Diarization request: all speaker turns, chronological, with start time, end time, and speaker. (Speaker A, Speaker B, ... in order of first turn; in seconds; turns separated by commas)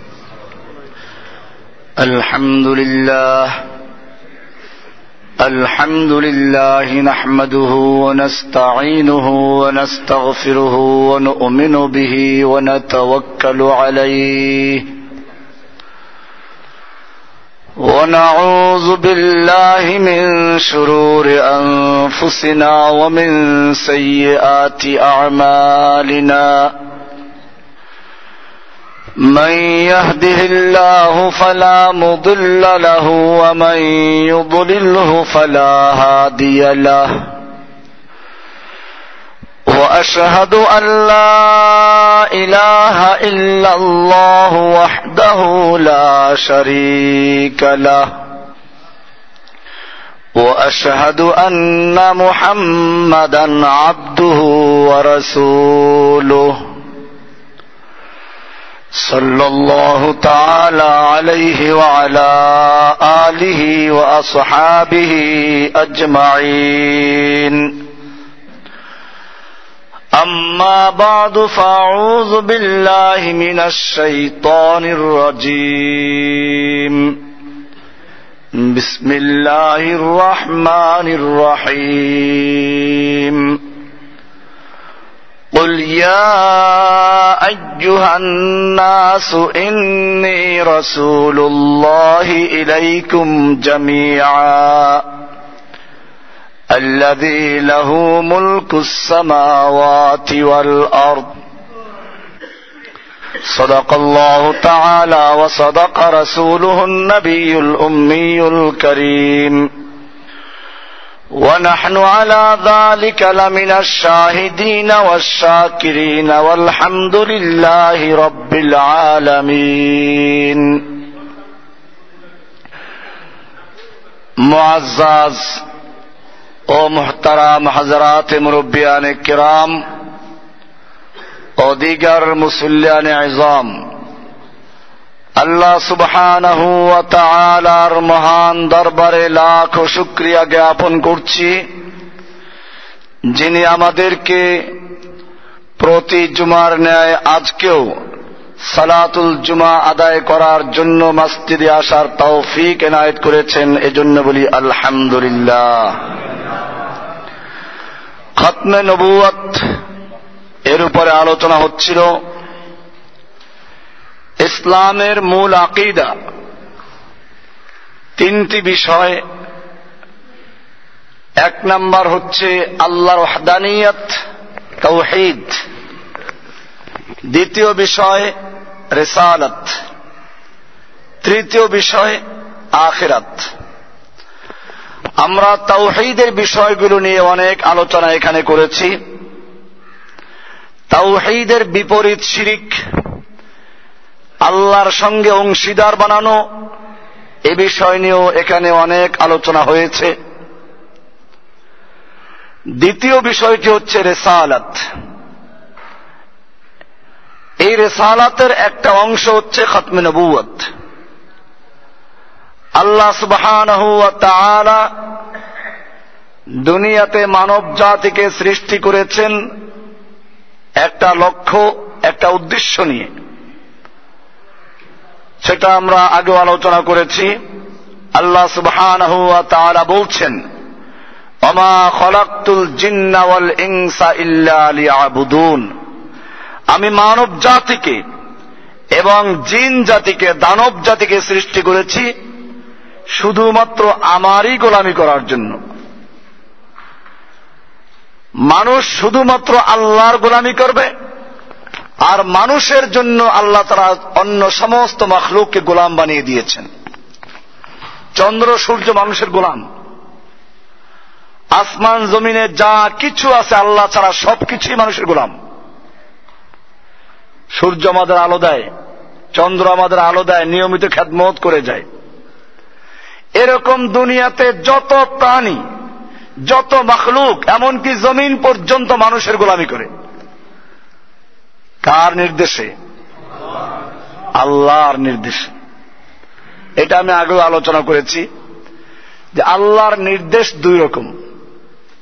Speaker A: 2.0-3.5, Speaker A: 5.4-14.9, Speaker A: 17.8-26.7, Speaker A: 29.2-37.1, Speaker A: 39.7-48.0, Speaker A: 50.4-56.6, Speaker A: 59.0-67.8, Speaker A: 70.2-77.2, Speaker A: 78.6-83.6, Speaker A: 85.5-95.0, Speaker A: 96.7-101.3, Speaker A: 103.5-109.7, Speaker A: 111.4-120.9, Speaker A: 124.4-125.6, Speaker A: 126.7-129.7, Speaker A: 131.6-133.7, Speaker A: 135.4-141.7, Speaker A: 143.3-144.7, Speaker A: 145.8-147.9, Speaker A: 148.7-156.0, Speaker A: 158.4-159.6, Speaker A: 160.7-162.2, Speaker A: 164.4-166.1, Speaker A: 168.2-169.2, Speaker A: 171.4-174.1, Speaker A: 174.8-175.6, Speaker A: 177.3-178.3, Speaker A: 178.9-179.7, Speaker A: 181.2-182.2, Speaker A: 182.8-183.4, Speaker A: 185.2-188.9, Speaker A: 190.9-192.8, Speaker A: 194.4-196.4, Speaker A: 197.5-200.1, Speaker A: 202.8-204.8, Speaker A: 207.6-210.6, Speaker A: 212.8-214.8, Speaker A: 216.6-219.3, Speaker A: 220.8-223.1, Speaker A: 225.4-227.3, Speaker A: 228.2-230.4, Speaker A: 231.4-235.7, Speaker A: 236.7-238.0, Speaker A: 239.0-242.1, Speaker A: 243.2-245.6, Speaker A: 248.5-250.9, Speaker A: 252.1-256.7, Speaker A: 258.2-259.6, Speaker A: 261.6-265.3, Speaker A: 267.6-268.7, Speaker A: 269.3-271.8, Speaker A: 273.4-275.6, Speaker A: 276.5-279.9, Speaker A: 281.8-282.7, Speaker A: 284.4-285.5, Speaker A: 286.8-288.2, Speaker A: 289.3-291.1